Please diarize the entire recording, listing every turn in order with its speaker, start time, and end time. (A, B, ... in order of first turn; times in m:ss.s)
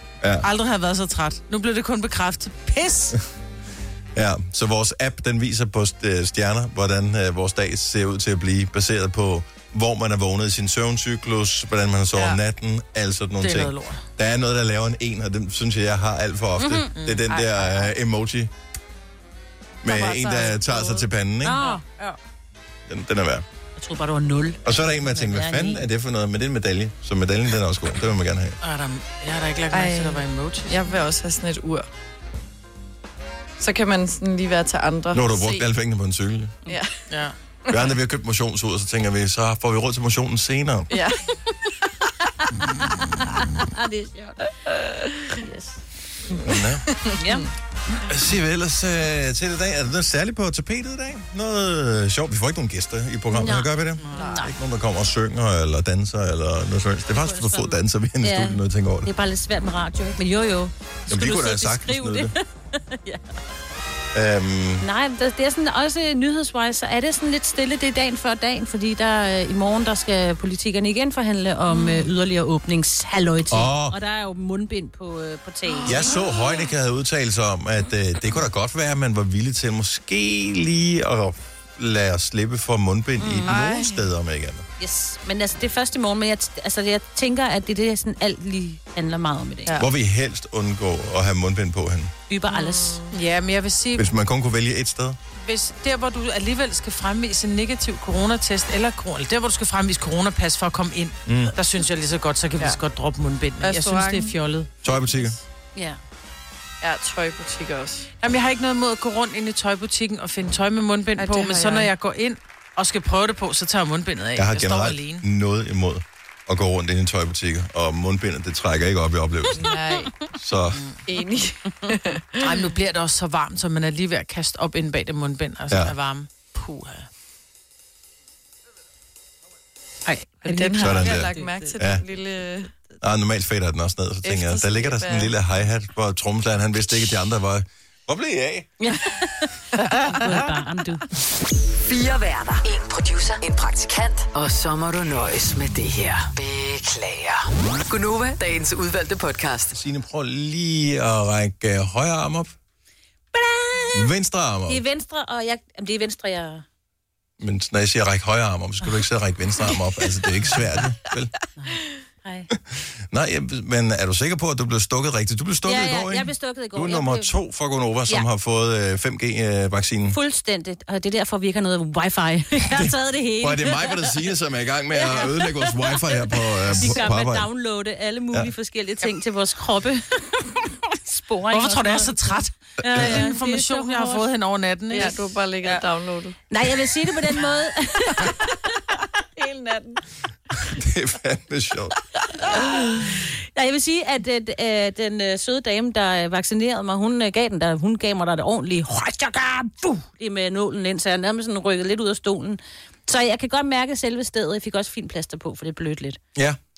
0:00.2-0:00.5 A
0:00.4-0:03.2 B
0:04.1-0:18.5 A
0:13.4-0:14.0 B
0:16.6-0:16.9 C
0:17.0-0:17.4 B
0:19.8-0:21.6 A
0:19.8-0:21.0 D
0:21.4-0:21.8 C
0:21.6-0:22.2 B
0:22.9-0:23.4 A
0:23.8-0:25.9 C
0:24.6-0:28.6 A
0:28.6-0:31.0 B
0:29.7-0:31.9 D
0:33.6-0:35.7 D
0:35.1-0:36.6 A
0:37.1-0:37.4 B
0:37.7-0:40.9 A
0:40.9-0:41.2 D
0:42.6-0:44.5 C
0:45.3-0:45.8 C
0:46.4-0:46.8 A
0:47.0-0:47.4 D
0:47.2-0:47.5 C
0:48.1-0:59.1 A
0:53.3-0:54.5 C
0:54.0-0:54.3 B
0:57.2-1:03.3 C
1:01.1-1:02.3 A
1:04.1-1:04.9 A
1:04.8-1:16.2 C
1:11.8-1:12.0 D
1:13.5-1:13.9 A
1:15.7-1:16.3 D
1:15.9-1:24.6 A
1:23.2-1:23.5 C
1:23.5-1:24.0 D
1:24.8-1:29.8 C
1:29.7-1:32.1 A
1:32.3-1:33.0 C
1:32.5-1:33.1 D
1:33.1-1:34.1 B
1:34.0-1:35.2 A
1:35.4-1:44.7 B
1:41.2-1:41.6 A
1:43.6-1:44.3 D
1:44.8-1:45.4 A
1:44.8-1:45.4 D
1:46.8-1:48.1 D
1:48.2-1:55.2 B
1:51.2-1:51.9 D
1:54.4-1:59.7 A
1:59.6-2:00.2 D
2:00.3-2:00.8 A
2:01.1-2:02.6 D
2:02.4-2:07.1 B
2:05.7-2:05.9 A
2:10.1-2:11.5 C
2:10.4-2:12.7 D
2:10.8-2:12.0 A
2:13.0-2:18.8 A
2:14.2-2:15.3 D
2:18.8-2:19.1 C
2:19.8-2:20.1 D
2:20.1-2:21.0 C
2:21.9-2:29.7 E
2:29.7-2:32.6 A
2:33.3-2:34.1 C
2:33.9-2:34.8 A
2:34.7-2:36.6 C
2:37.4-2:41.3 A
2:41.6-2:42.5 C
2:42.5-2:50.2 A
2:45.6-2:47.3 C
2:50.1-2:54.1 C
2:52.7-2:57.5 A
2:54.9-3:02.1 C
3:01.5-3:05.8 B
3:02.8-3:04.2 C
3:02.9-3:03.2 A
3:04.9-3:06.4 D
3:06.5-3:08.6 C
3:09.4-3:10.0 D
3:10.6-3:11.9 A
3:12.5-3:26.2 C